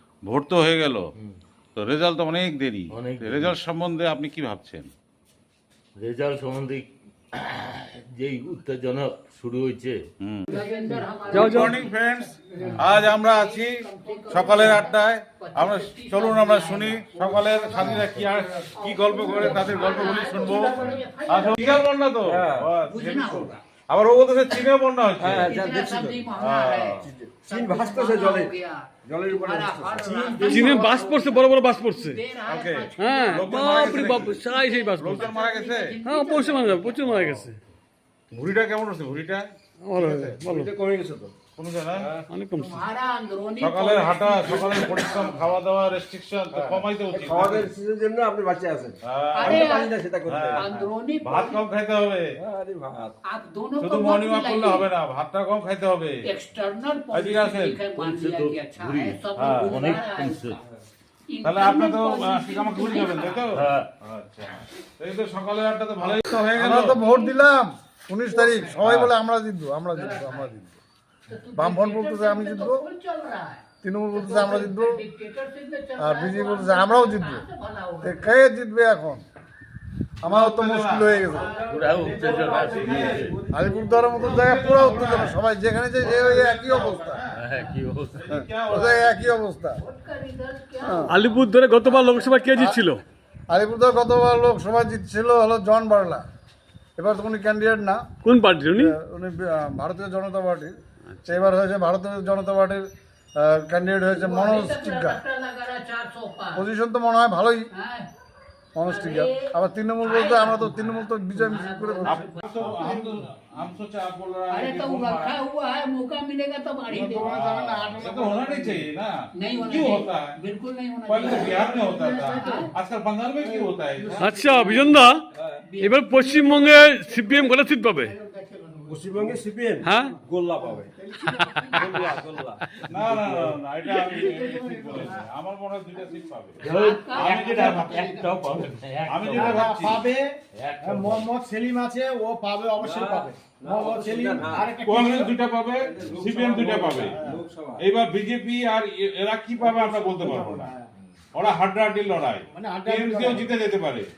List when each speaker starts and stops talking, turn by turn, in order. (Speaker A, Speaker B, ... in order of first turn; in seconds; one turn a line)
Speaker A: 0.2-1.1
Speaker A: 1.8-4.9
Speaker B: 2.9-3.6
Speaker B: 6.0-10.0
Speaker A: 10.2-10.5
Speaker C: 10.5-11.9
Speaker D: 10.5-11.6
Speaker E: 11.3-11.7
Speaker A: 11.4-25.6
Speaker D: 12.6-13.0
Speaker C: 13.0-18.2
Speaker C: 18.8-21.9
Speaker D: 18.9-20.9
Speaker F: 19.1-19.9
Speaker F: 22.2-22.7
Speaker C: 22.9-23.6
Speaker F: 25.2-26.2
Speaker C: 25.5-37.2
Speaker A: 26.4-27.1
Speaker F: 27.0-28.5
Speaker F: 29.1-31.0
Speaker E: 30.5-32.2
Speaker A: 32.5-34.5
Speaker E: 33.0-35.3
Speaker A: 35.0-36.0
Speaker E: 36.0-37.6
Speaker A: 38.3-39.5
Speaker E: 39.8-40.7
Speaker F: 40.0-41.3
Speaker A: 41.6-42.1
Speaker F: 42.0-42.3
Speaker E: 42.3-42.8
Speaker C: 42.6-45.3
Speaker A: 43.6-47.7
Speaker F: 46.5-50.9
Speaker A: 49.1-49.6
Speaker C: 49.4-50.0
Speaker A: 50.3-50.7
Speaker C: 50.5-51.6
Speaker A: 51.2-52.3
Speaker F: 52.4-53.2
Speaker C: 53.2-54.9
Speaker A: 53.8-56.2
Speaker C: 56.2-60.6
Speaker A: 57.1-57.9
Speaker B: 58.0-60.6
Speaker A: 59.4-59.7
Speaker C: 61.3-63.5
Speaker A: 61.4-67.0
Speaker B: 63.5-63.9
Speaker G: 66.5-70.8
Speaker C: 67.0-67.3
Speaker C: 68.3-68.6
Speaker A: 68.8-69.1
Speaker C: 70.0-70.5
Speaker C: 71.3-78.2
Speaker G: 71.6-72.8
Speaker G: 73.8-74.9
Speaker G: 76.0-77.4
Speaker G: 78.0-79.2
Speaker G: 80.2-81.5
Speaker A: 80.2-81.4
Speaker C: 81.2-82.3
Speaker F: 81.3-84.4
Speaker B: 81.7-83.4
Speaker A: 82.6-83.3
Speaker G: 83.5-87.2
Speaker A: 84.2-85.4
Speaker A: 86.0-87.4
Speaker B: 87.4-88.2
Speaker A: 88.1-89.4
Speaker G: 88.3-89.8
Speaker C: 89.8-92.0
Speaker G: 90.8-91.1
Speaker E: 91.1-93.0
Speaker G: 93.5-96.2
Speaker G: 97.0-98.0
Speaker E: 98.2-98.9
Speaker G: 98.7-100.7
Speaker G: 101.2-102.8
Speaker G: 103.4-105.2
Speaker C: 104.1-106.7
Speaker G: 106.5-107.7
Speaker C: 107.7-108.1
Speaker G: 108.8-112.2
Speaker C: 108.9-109.5
Speaker C: 110.0-113.1
Speaker A: 112.0-115.4
Speaker C: 114.5-117.4
Speaker D: 116.9-118.8
Speaker A: 117.2-119.1
Speaker C: 119.4-122.7
Speaker A: 119.6-120.2
Speaker A: 121.1-124.3
Speaker D: 123.4-124.9
Speaker E: 124.2-125.2
Speaker C: 124.5-124.8
Speaker F: 125.3-125.6
Speaker C: 125.6-127.1
Speaker E: 125.8-128.2
Speaker D: 127.1-129.4
Speaker F: 128.9-130.9
Speaker E: 129.8-130.2
Speaker D: 130.6-132.1
Speaker C: 131.3-131.8
Speaker F: 131.7-133.3
Speaker A: 132.9-138.2
Speaker D: 133.8-135.3
Speaker C: 136.6-138.2
Speaker B: 136.6-139.7
Speaker A: 139.1-140.0
Speaker D: 139.3-140.3
Speaker B: 140.6-141.3
Speaker D: 140.8-145.3
Speaker F: 142.8-144.8
Speaker A: 144.8-147.2
Speaker F: 145.8-147.8
Speaker D: 147.0-147.4
Speaker A: 147.8-150.7
Speaker D: 149.6-150.9
Speaker A: 151.3-154.1
Speaker D: 152.5-153.5